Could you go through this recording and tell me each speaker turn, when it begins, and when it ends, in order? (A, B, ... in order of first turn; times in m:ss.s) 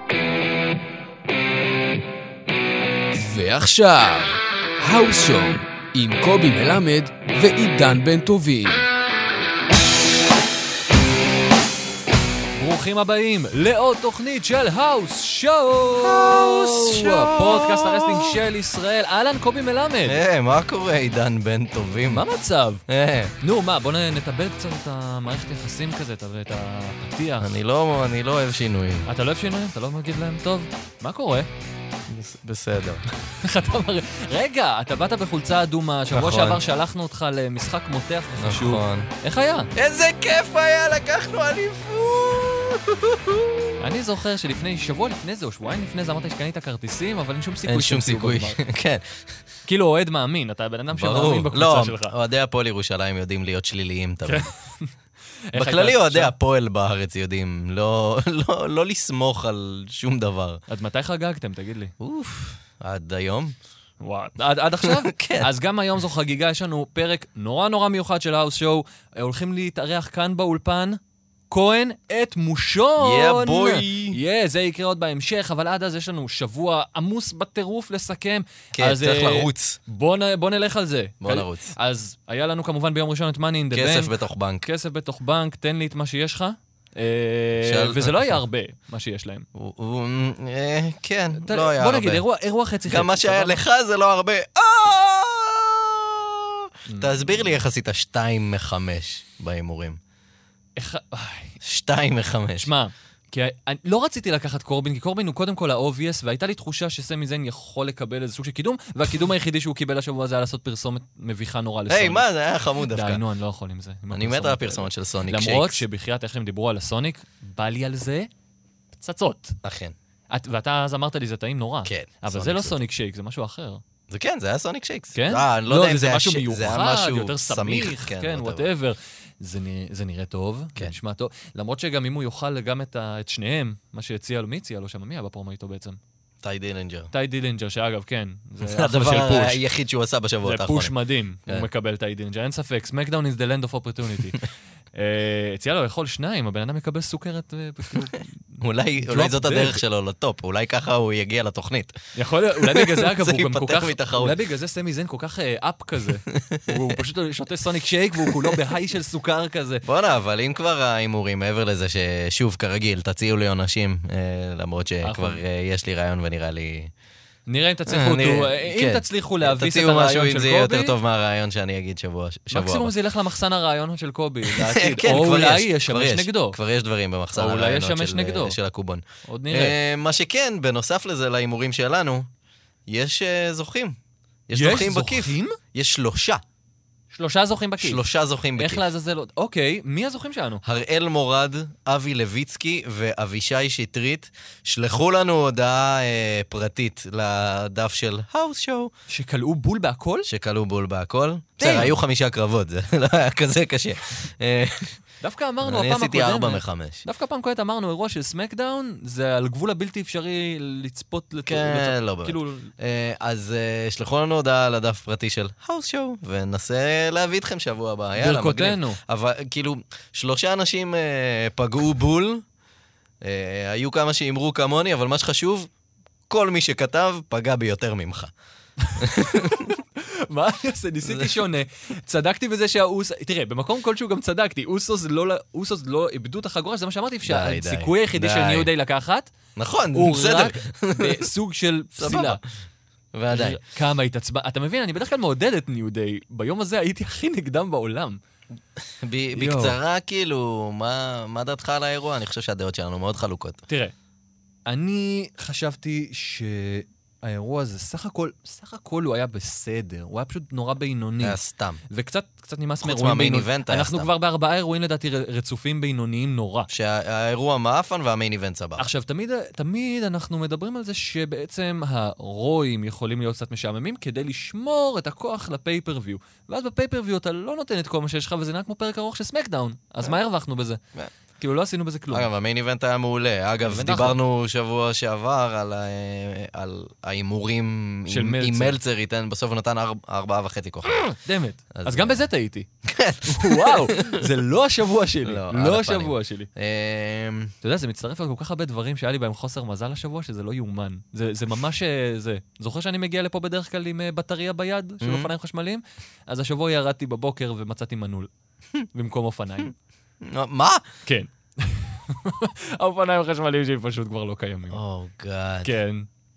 0:03.1-0:08.8 A
0:12.6-0:20.2 B
0:16.0-0:18.4 C
0:20.0-0:22.2 C
0:22.1-0:22.8 B
0:22.9-0:23.3 C
0:23.4-0:27.6 B
0:27.4-0:29.1 C
0:29.0-0:31.5 B
0:32.1-0:33.0 C
0:33.4-0:39.7 B
0:36.1-0:36.6 C
0:38.4-0:39.1 C
0:39.7-0:43.8 C
0:43.8-0:48.6 B
0:47.6-0:49.4 C
0:49.6-0:52.1 B
0:50.9-0:54.5 C
0:54.2-0:54.9 B
0:55.5-0:56.3 B
0:55.5-1:00.6 C
1:00.7-1:01.9 B
1:02.0-1:03.6 C
1:04.0-1:29.5 B
1:04.8-1:05.5 C
1:13.0-1:14.2 C
1:18.7-1:19.8 C
1:21.2-1:21.7 C
1:23.7-1:24.6 C
1:27.6-1:28.4 C
1:29.5-1:32.2 C
1:31.4-1:33.6 B
1:32.9-1:40.0 C
1:36.9-1:37.6 B
1:40.8-1:41.6 B
1:41.6-1:42.7 C
1:42.6-1:58.3 B
1:51.9-1:53.2 C
1:54.1-1:55.8 C
1:59.0-1:59.6 B
1:59.6-2:00.0 C
2:00.3-2:03.8 B
2:01.8-2:02.8 C
2:04.1-2:08.7 C
2:05.1-2:16.0 B
2:16.4-2:17.1 C
2:17.1-2:19.6 B
2:18.6-2:20.9 C
2:20.4-2:29.8 B
2:28.6-2:32.0 C
2:32.1-2:39.8 B
2:32.6-2:34.4 C
2:36.3-2:37.0 C
2:38.2-2:38.6 C
2:39.8-2:46.9 C
2:45.0-2:45.4 B
2:47.5-2:50.9 B
2:47.9-2:52.9 C
2:52.5-2:56.6 B
2:54.4-3:02.3 C
2:57.4-2:58.6 B
2:59.2-2:59.8 B
3:02.9-3:04.0 C
3:04.5-3:06.4 C
3:04.5-3:05.6 B
3:07.1-3:08.0 B
3:07.8-3:08.8 C
3:08.6-3:10.6 B
3:10.6-3:18.9 C
3:19.1-3:20.3 B
3:20.3-3:25.0 C
3:21.6-3:22.0 B
3:25.2-3:32.7 B
3:25.6-3:27.0 C
3:31.4-3:42.4 C
3:38.2-3:39.0 B
3:43.2-3:45.7 C
3:46.3-3:48.3 C
3:48.8-3:59.3 B
3:49.0-3:49.7 C
3:51.0-3:51.4 C
3:57.2-3:58.7 C
3:59.6-4:01.3 C
3:59.9-4:02.4 B
4:01.9-4:02.4 C
4:03.1-4:03.6 C
4:03.3-4:08.2 B
4:09.0-4:13.6 C
4:09.3-4:09.8 B
4:13.7-4:13.9 B
4:14.6-4:21.4 B
4:21.2-4:21.8 C
4:21.9-4:26.7 B
4:22.8-4:24.1 C
4:26.7-4:28.9 C
4:28.8-4:40.8 B
4:41.4-4:42.3 B
4:42.1-4:51.0 C
4:43.6-4:44.2 B
4:48.1-4:48.8 B
4:51.1-4:52.7 B
4:51.7-4:52.2 C
4:52.8-4:54.2 C
4:53.2-4:56.5 B
4:55.2-4:57.5 C
4:57.6-5:08.3 B
5:05.0-5:05.3 C
5:08.9-5:09.7 B
5:10.2-5:10.8 C
5:11.0-5:14.8 B
5:14.7-5:15.7 C
5:15.6-5:16.1 B